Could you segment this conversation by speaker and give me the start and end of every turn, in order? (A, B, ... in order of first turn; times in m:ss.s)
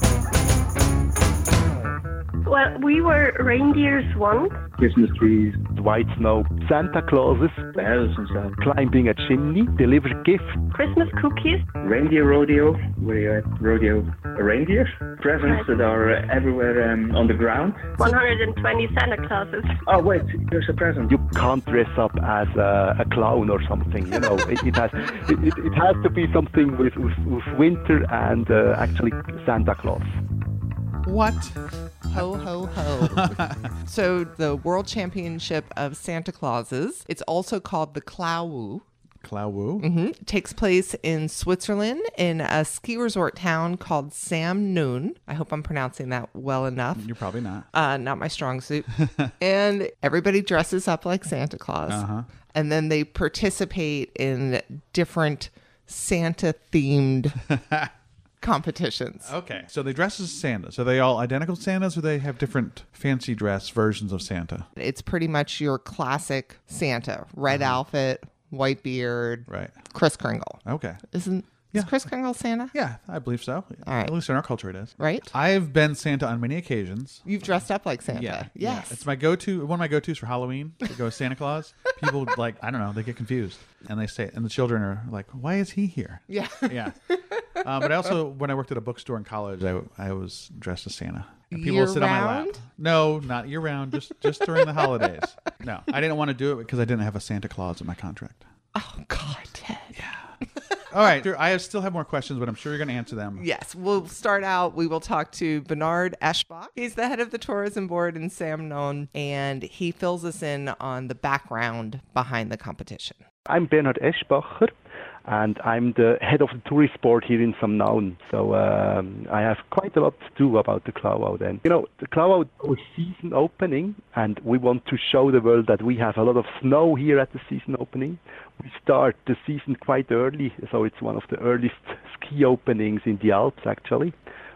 0:02.4-0:04.6 A
0:05.2-0:07.7 B
0:07.7-0:08.5 C
0:08.6-0:10.6 B
0:10.7-0:11.6 A
0:11.8-0:18.0 C
0:18.0-0:19.8 A
0:19.8-0:21.1 C
0:21.1-0:30.2 B
0:31.0-0:32.3 D
0:32.1-0:38.8 E
0:33.0-0:33.7 D
0:39.2-0:39.9 D
0:39.8-0:47.1 E
0:47.0-0:47.6 D
0:47.7-0:57.4 E
0:51.9-0:52.2 D
0:57.5-0:57.9 D
0:58.4-0:59.3 E
0:59.2-1:04.6 D
1:04.8-1:12.7 E
1:09.5-1:09.8 D
1:10.6-1:11.0 D
1:12.7-1:17.2 D
1:13.8-1:14.1 E
1:15.0-1:15.3 E
1:17.2-1:19.0 E
1:18.1-1:27.0 D
1:26.3-1:27.2 E
1:27.6-1:38.4 D
1:31.5-1:32.6 E
1:38.7-1:40.0 E
1:39.9-1:40.3 D
1:40.9-1:43.4 D
1:43.4-1:53.2 E
1:53.5-1:54.7 B
1:55.2-2:14.1 B